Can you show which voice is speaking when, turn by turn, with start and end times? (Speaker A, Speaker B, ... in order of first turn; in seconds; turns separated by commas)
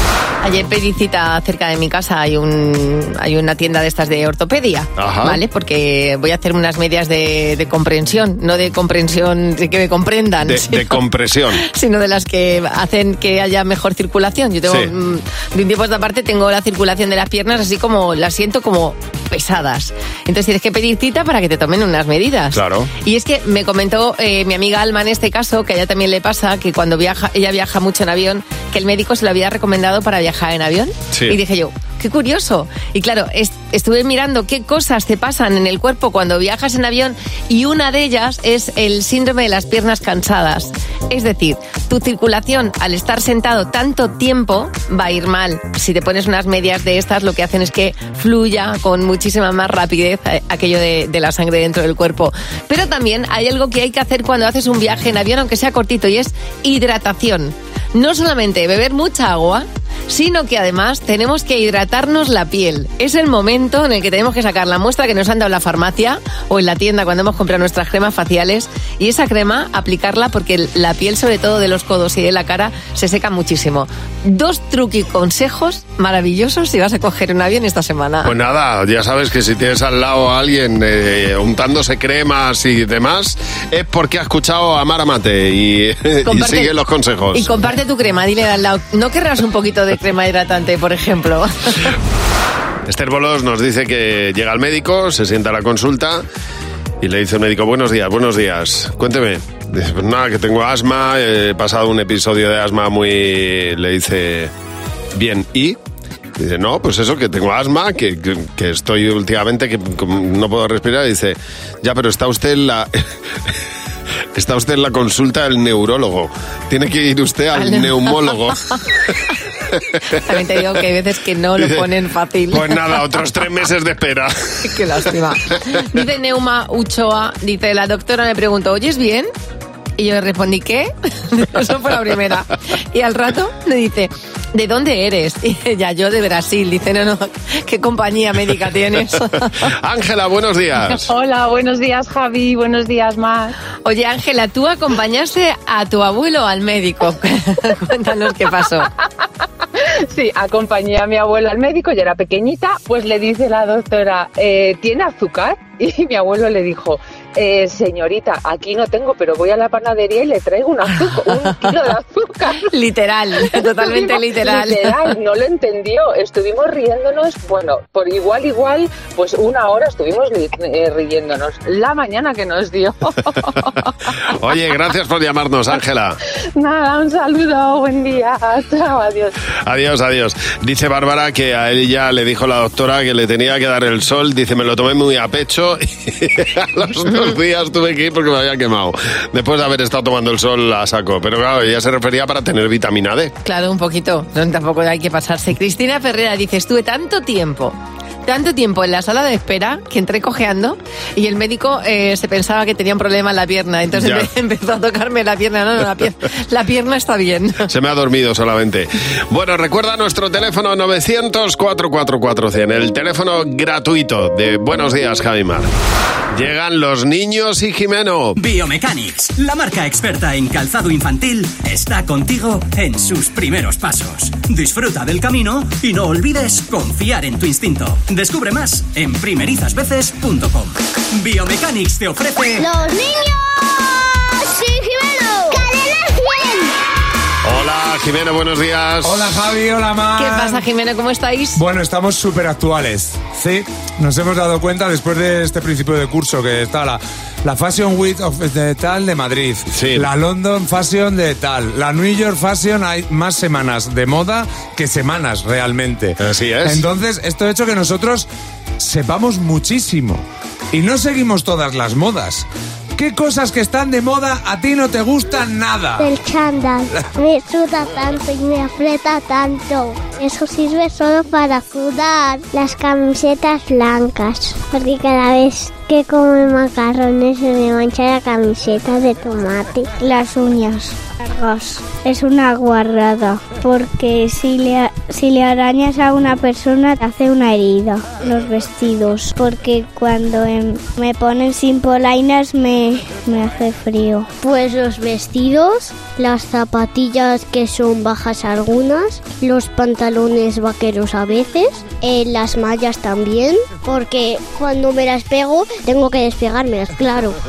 Speaker A: 0.4-11.0, Speaker B: 5.0-5.4, Speaker B: 10.4-11.6, Speaker A: 11.6-78.3, Speaker B: 14.7-14.9, Speaker B: 22.5-22.9, Speaker B: 31.1-31.4, Speaker B: 78.2-87.5, Speaker A: 86.2-86.7, Speaker A: 87.3-91.9, Speaker B: 92.9-96.2, Speaker B: 97.0-104.5, Speaker B: 105.1-105.8, Speaker B: 106.4-113.0, Speaker B: 114.3-118.6, Speaker A: 117.5-118.8, Speaker A: 120.1-122.8, Speaker B: 121.6-121.8, Speaker B: 122.5-124.7, Speaker A: 124.6-129.3, Speaker A: 130.0-139.7, Speaker B: 139.6-141.1, Speaker C: 140.9-143.5, Speaker A: 143.8-148.9, Speaker C: 149.8-162.7, Speaker A: 162.6-165.1, Speaker C: 163.5-174.1, Speaker B: 174.3-176.2, Speaker C: 176.5-179.3, Speaker B: 179.6-193.3, Speaker A: 193.4-207.7, Speaker B: 203.9-204.3, Speaker B: 207.7-215.7, Speaker B: 216.3-218.3, Speaker D: 218.3-232.7, Speaker E: 232.6-236.7, Speaker B: 237.4-239.4, Speaker F: 239.0-240.6, Speaker A: 240.1-241.6, Speaker F: 241.6-258.3, Speaker B: 249.7-250.1, Speaker B: 256.2-256.9, Speaker F: 258.8-262.4, Speaker F: 263.0-266.1, Speaker E: 266.0-307.4